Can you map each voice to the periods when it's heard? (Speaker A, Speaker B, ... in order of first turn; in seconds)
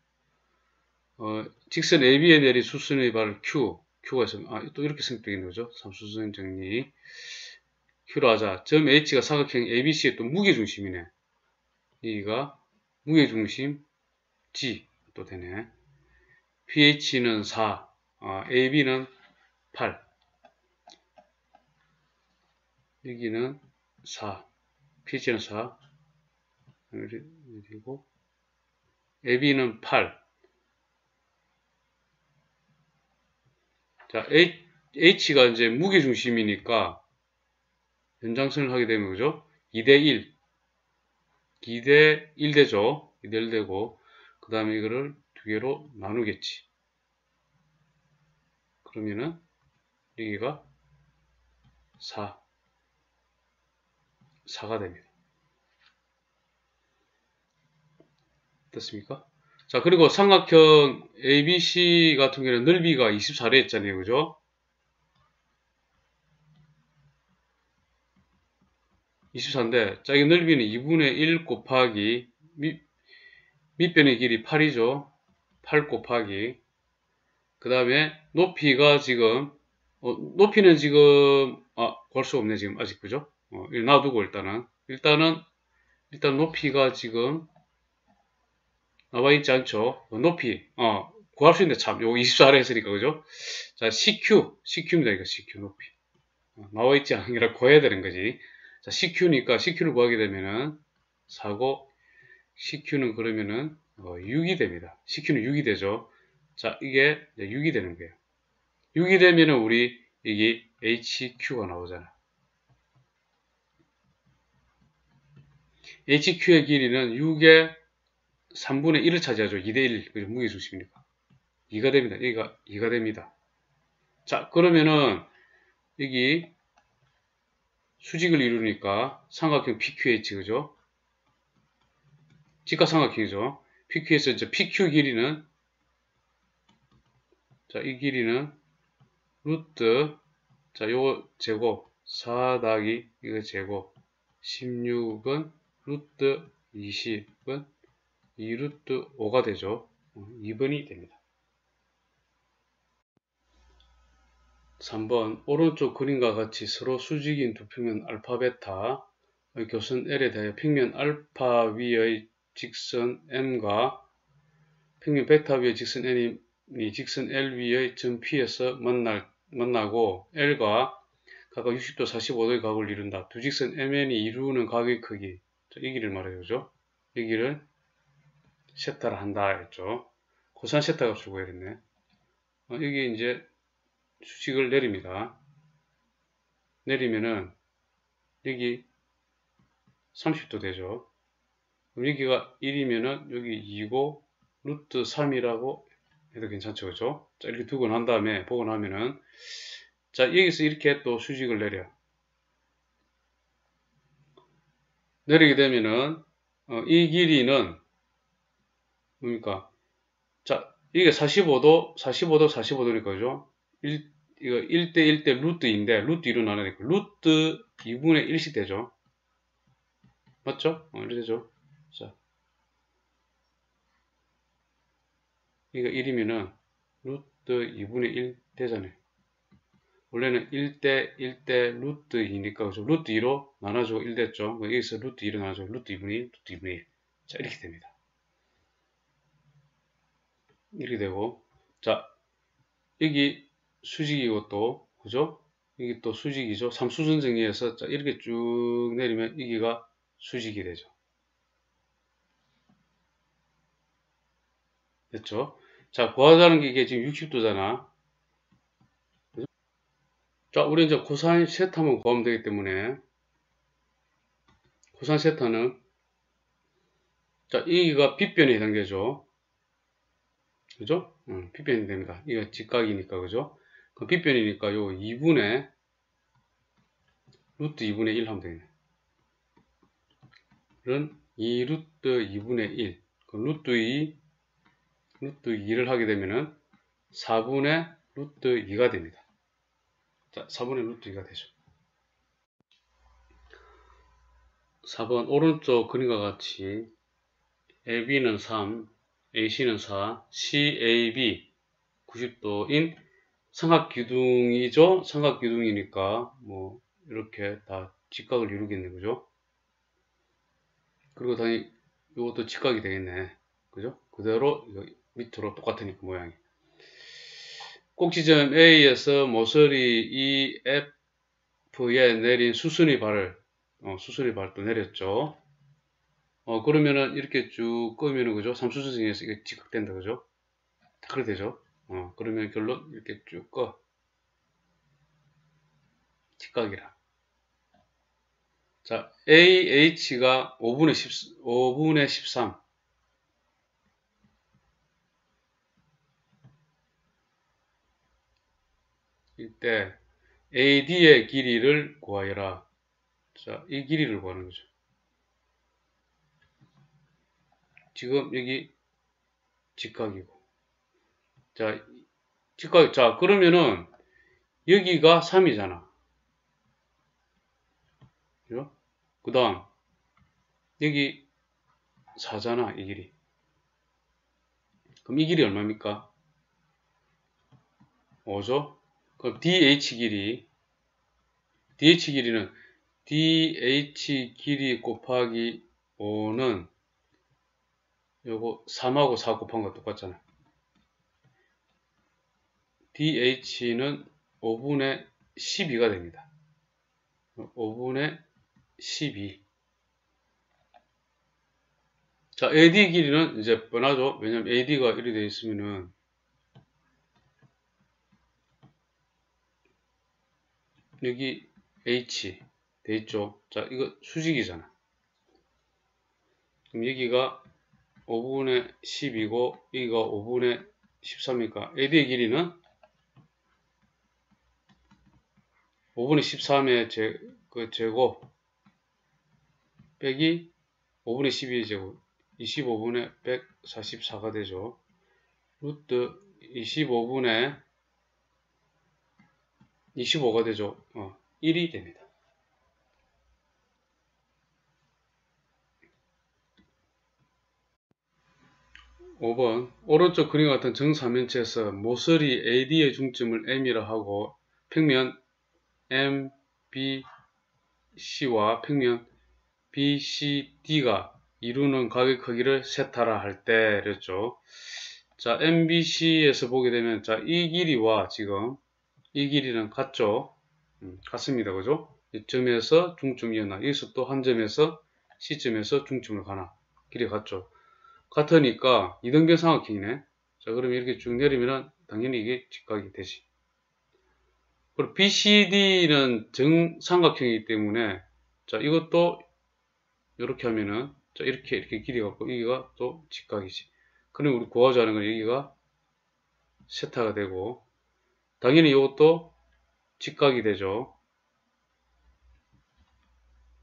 Speaker A: 1.2-6.9, 8.1-11.1, 12.0-13.8, 14.5-15.7, 16.7-19.1, 19.7-20.0, 23.0-24.5, 25.0-25.8, 26.9-28.1, 29.2-30.2, 34.1-37.0, 38.2-40.3, 41.6-46.7, 48.8-49.4, 50.1-50.7, 52.0-52.4, 54.5-55.1, 58.7-64.4, 69.3-72.8, 73.8-76.6, 77.6-85.4, 86.1-87.5, 89.1-95.9, 96.6-101.9, 102.5-108.2, 108.9-112.1, 116.0-117.8, 118.5-121.0, 121.7-123.3, 124.2-125.3, 126.0-126.5, 128.0-130.7, 132.7-135.5, 137.7-138.6, 139.4-140.2, 140.7-147.7, 148.4-151.2, 154.8-164.0, 165.0-177.6, 178.7-181.8, 182.7-183.5, 184.2-185.4, 186.8-187.5, 188.4-188.8, 190.1-191.1, 191.9-199.2, 200.1-201.9, 205.2-207.8, 209.2-209.7, 210.4-218.9, 220.4-222.1, 225.7-229.0, 230.1-237.9, 240.7-242.1, 243.0-250.9, 255.1-257.9, 260.5-263.0, 264.9-265.8, 267.5-269.2, 270.8-275.7, 277.6-278.7, 280.8-284.2, 285.2-286.6, 287.1-289.2, 290.3-291.5, 294.8-296.9, 297.9-301.5, 302.1-303.0, 303.5-309.2, 311.1-316.4, 317.9-320.9, 321.7-325.4, 326.4-330.2, 331.0-333.8, 336.4-336.9, 338.8-342.6, 349.4-350.0, 350.5-352.7, 353.3-354.7, 357.9-358.7, 359.8-360.4, 361.5-362.0, 362.6-363.9, 364.6-365.9, 368.5-369.7, 370.8-371.2, 372.1-373.1, 375.0-376.1, 378.2-380.5, 381.8-386.7, 388.2-390.2, 392.9-396.3, 397.4-398.2, 398.8-399.4, 402.4-405.9, 411.0-414.7, 416.7-417.4, 418.1-422.6, 425.9-428.3, 430.0-430.5, 431.0-434.8, 435.6-437.6, 439.9-442.1, 449.2-455.2, 455.9-457.1, 457.9-459.1, 459.7-464.4, 465.1-468.6, 469.1-477.5, 478.1-483.2, 484.8-489.2, 490.2-495.5, 496.7-497.6, 498.4-499.4, 500.0-500.9